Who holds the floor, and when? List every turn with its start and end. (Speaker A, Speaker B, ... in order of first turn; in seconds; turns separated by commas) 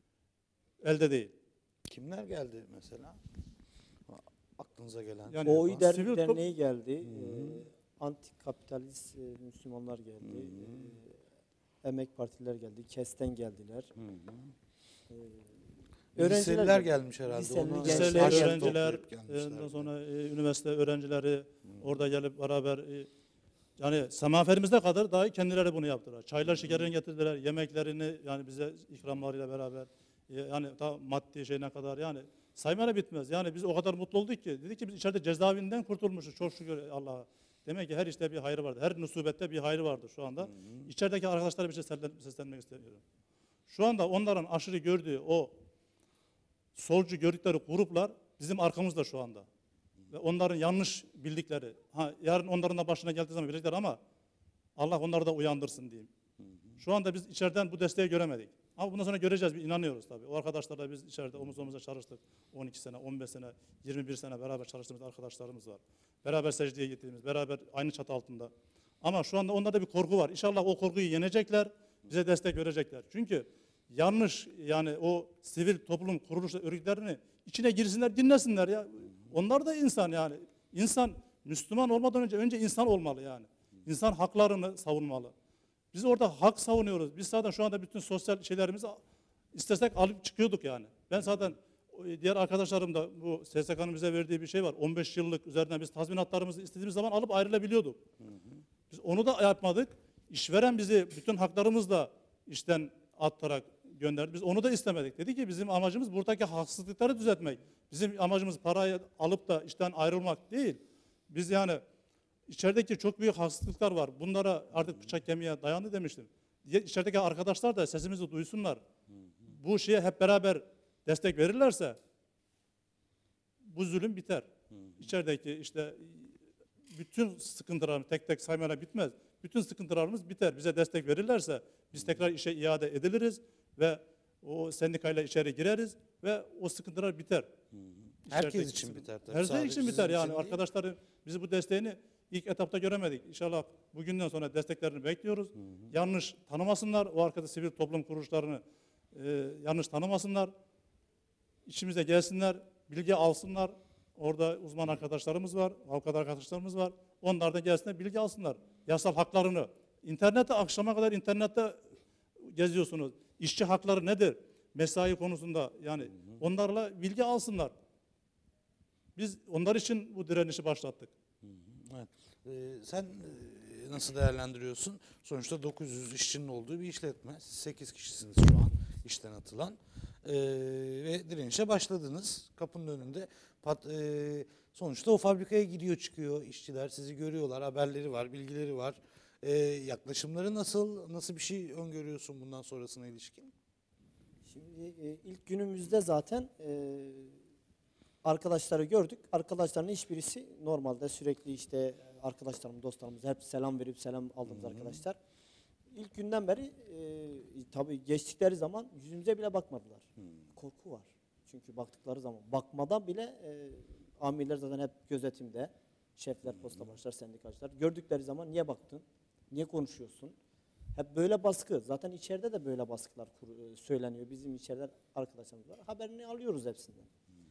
Speaker A: 0.8-1.3, Speaker B: 1.9-3.2, Speaker B: 4.1-5.9, Speaker A: 5.3-6.4, Speaker C: 5.4-11.1, Speaker B: 7.1-7.6, Speaker B: 10.2-10.9, Speaker C: 11.8-13.9, Speaker B: 14.0-14.5, Speaker C: 15.1-15.4, Speaker C: 16.1-18.8, Speaker B: 16.2-19.9, Speaker A: 17.8-23.1, Speaker A: 23.8-43.0, Speaker B: 40.5-40.9, Speaker A: 43.7-45.5, Speaker A: 46.8-49.5, Speaker A: 50.1-54.0, Speaker A: 54.8-56.1, Speaker A: 56.8-68.5, Speaker A: 69.0-85.3, Speaker A: 85.9-89.0, Speaker A: 89.5-98.0, Speaker B: 98.2-98.6, Speaker A: 98.9-111.8, Speaker A: 112.5-118.8, Speaker A: 119.5-122.0, Speaker A: 123.6-126.3, Speaker A: 126.9-137.5, Speaker B: 137.8-140.6, Speaker A: 138.3-148.6, Speaker A: 149.1-150.5, Speaker A: 151.7-161.8, Speaker A: 162.4-167.7, Speaker A: 169.2-171.1, Speaker B: 171.4-193.5, Speaker C: 194.5-197.4, Speaker C: 198.2-205.2, Speaker C: 205.9-220.3, Speaker C: 220.9-227.1